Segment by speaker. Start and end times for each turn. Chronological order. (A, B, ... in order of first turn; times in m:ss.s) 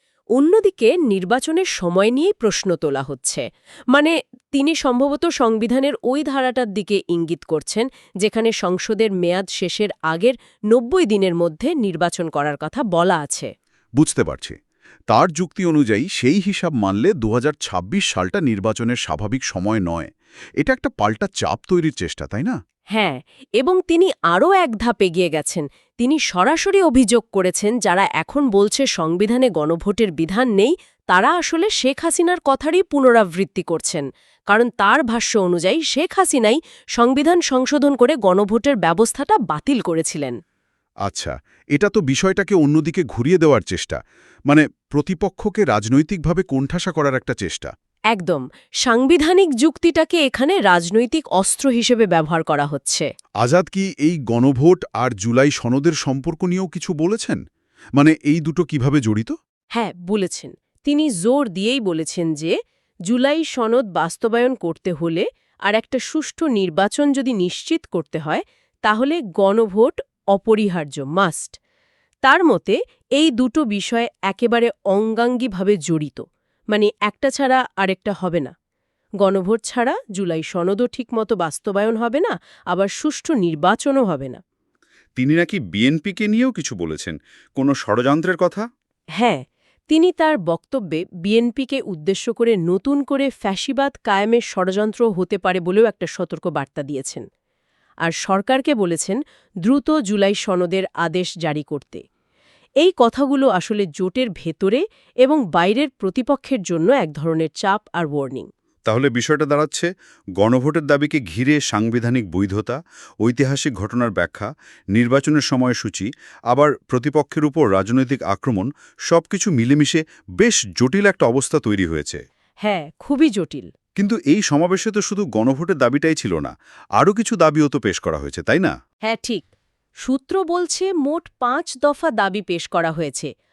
0:00.3-0:13.5 A
0:14.0-0:14.5 B
0:15.1-0:22.6 B
0:22.9-0:40.4 A
0:41.0-0:47.7 B
0:48.1-0:53.1 A
0:53.4-0:57.4 B
0:58.0-0:59.3 B
0:59.7-1:02.5 A
1:03.1-1:11.6 A
1:12.2-1:18.5 A
1:19.2-1:24.4 A
1:25.2-1:28.6 B
1:29.2-1:37.2 A
1:38.0-1:42.0 A
1:42.8-1:48.5 A
1:48.9-2:02.2 B
2:02.6-2:03.7 A
2:04.0-2:08.7 B
2:09.0-2:09.5 A
2:10.0-2:13.3 A